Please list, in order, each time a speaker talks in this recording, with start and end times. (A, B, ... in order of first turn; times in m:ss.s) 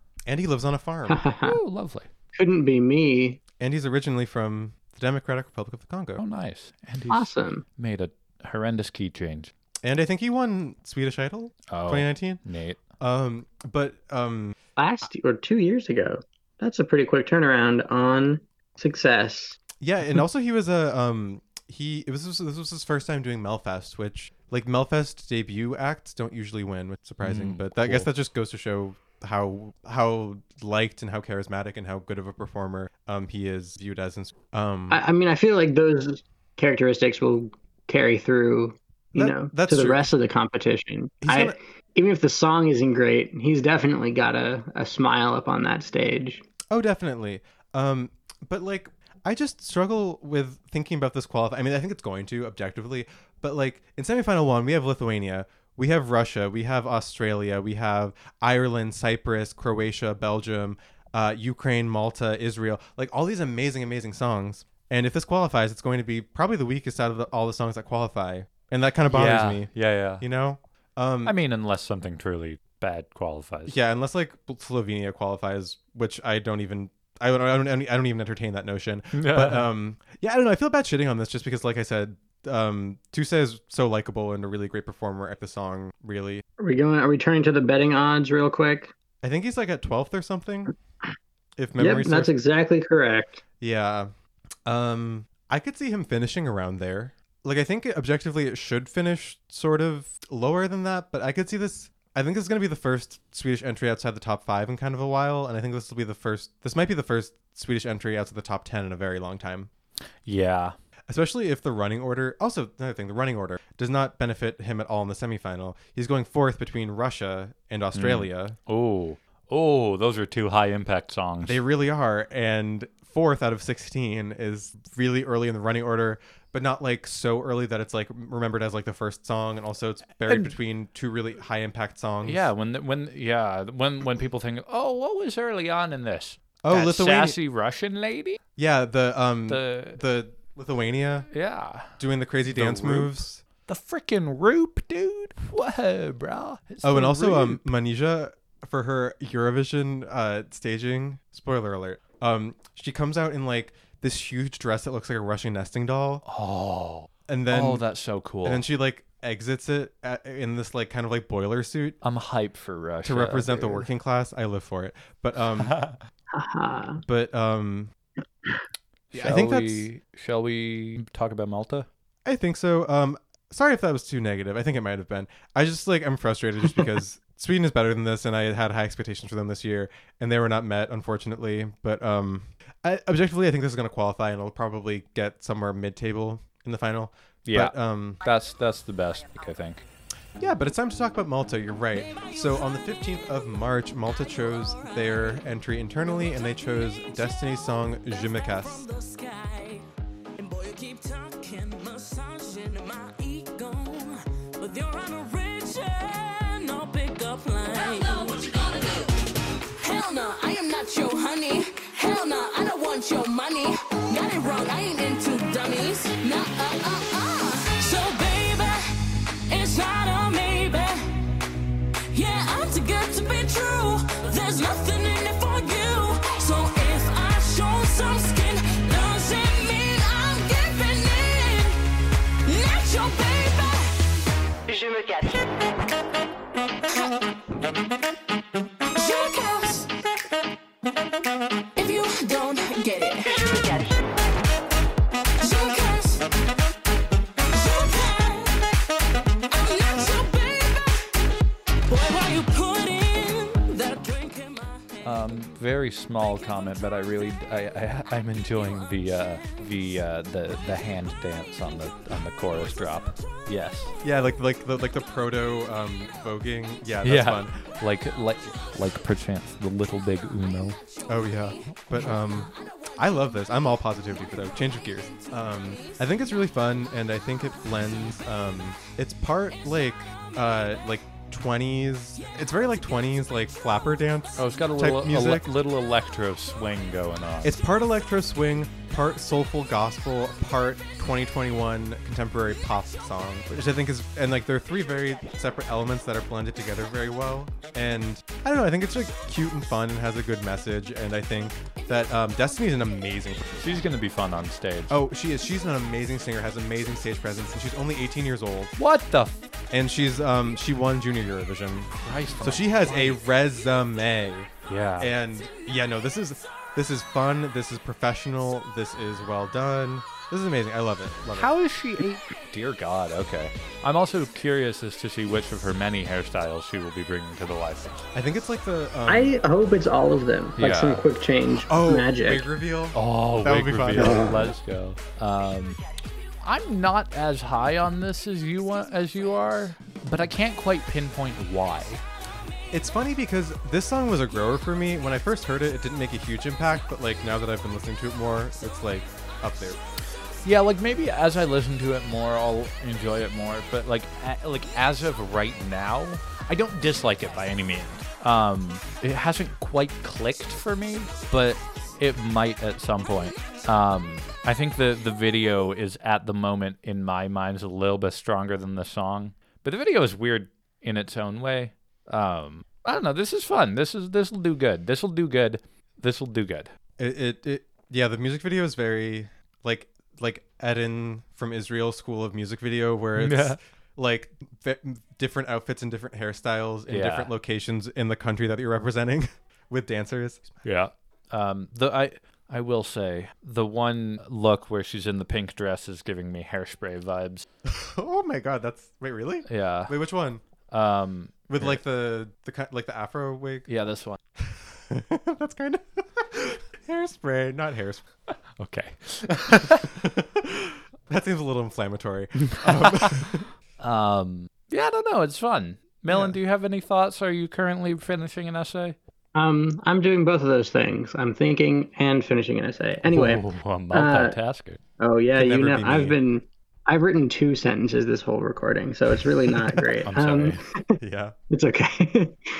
0:00.2-0:01.2 A
0:01.1-0:01.6 B
0:01.4-0:02.1 C
0:02.3-0:03.4 B
0:03.6-0:06.2 A
0:06.2-0:09.5 C
0:07.1-0:07.6 B
0:09.8-0:12.4 A
0:11.7-0:12.8 C
0:13.0-0:14.6 A
0:14.8-0:19.6 B
0:19.8-0:35.0 A
0:27.2-0:28.1 C
0:34.9-0:46.4 B
0:39.1-0:40.0 A
0:41.2-0:41.6 A
0:46.7-1:11.3 A
1:09.1-1:10.2 C
1:11.2-1:13.8 C
1:13.7-1:26.4 A
1:19.1-1:19.6 C
1:26.6-1:28.9 B
1:29.2-1:30.7 A
1:31.6-1:32.3 A
1:31.8-1:33.4 B
1:33.6-1:34.1 A
1:34.6-1:49.7 A
1:50.2-1:50.8 C
1:51.1-1:58.6 A
1:57.9-2:01.6 C
2:01.4-2:12.4 A
2:10.2-2:10.5 C
2:12.2-2:18.4 C
2:16.6-2:17.4 A
2:18.6-2:21.3 A
2:19.5-2:20.0 C
2:21.3-2:21.9 C
2:22.0-2:23.4 A
2:22.5-2:23.1 C
2:23.7-2:27.6 C
2:26.8-2:36.2 A
2:36.2-2:38.6 C
2:37.3-2:37.8 A
2:38.4-2:42.0 A
2:42.0-2:43.8 C
2:43.0-2:45.8 A
2:45.7-2:46.0 C
2:46.3-2:47.0 B
2:47.0-2:47.9 A
2:49.1-2:51.9 C
2:49.1-2:49.9 A
2:52.2-3:08.2 A
3:07.5-3:09.8 C
3:10.4-3:18.8 A
3:14.6-3:15.3 D
3:18.3-3:19.8 D
3:20.4-3:29.2 D
3:29.8-3:38.8 D
3:39.5-3:41.2 D
3:42.1-3:51.8 D
3:52.4-3:53.9 D
3:58.9-3:59.9 D
4:01.8-4:03.8 D
4:05.4-4:06.3 D
4:07.5-4:08.6 D
4:09.5-4:11.0 D
4:11.9-4:15.0 D
4:15.0-4:23.9 C
4:24.0-4:27.6 A
4:27.0-4:30.8 C
4:31.1-4:45.5 A
4:44.4-4:47.5 C
4:47.4-5:03.7 A
5:03.6-5:05.0 C
5:04.9-5:08.7 A
5:08.8-5:09.4 C
5:09.7-5:21.5 A
5:12.0-5:13.2 C
5:14.7-5:15.1 C
5:21.3-5:28.0 C
5:28.1-5:29.4 A
5:29.1-5:32.4 B
5:30.6-5:31.1 C
5:31.7-5:34.5 A
5:32.9-5:35.8 C
5:36.4-5:42.0 C
5:42.7-5:49.8 A
5:50.4-6:16.7 C
6:17.0-6:30.6 A
6:23.2-6:23.6 C
6:26.9-6:27.3 C
6:30.6-6:37.4 C
6:37.7-6:40.4 A
6:39.5-6:39.9 C
6:40.7-6:41.8 C
6:41.5-6:43.7 A
6:43.7-6:44.2 C
6:44.4-6:48.0 A
6:48.6-6:49.9 C
6:49.7-6:53.5 A
6:52.5-6:53.0 C
6:53.8-6:59.0 C
6:56.1-6:56.4 A
6:59.3-7:04.4 B
7:03.0-7:04.8 C
7:05.0-7:10.6 B
7:05.4-7:06.2 A
7:09.7-7:10.0 A
7:10.1-7:10.6 C
7:11.0-7:11.3 A
7:11.5-7:12.4 B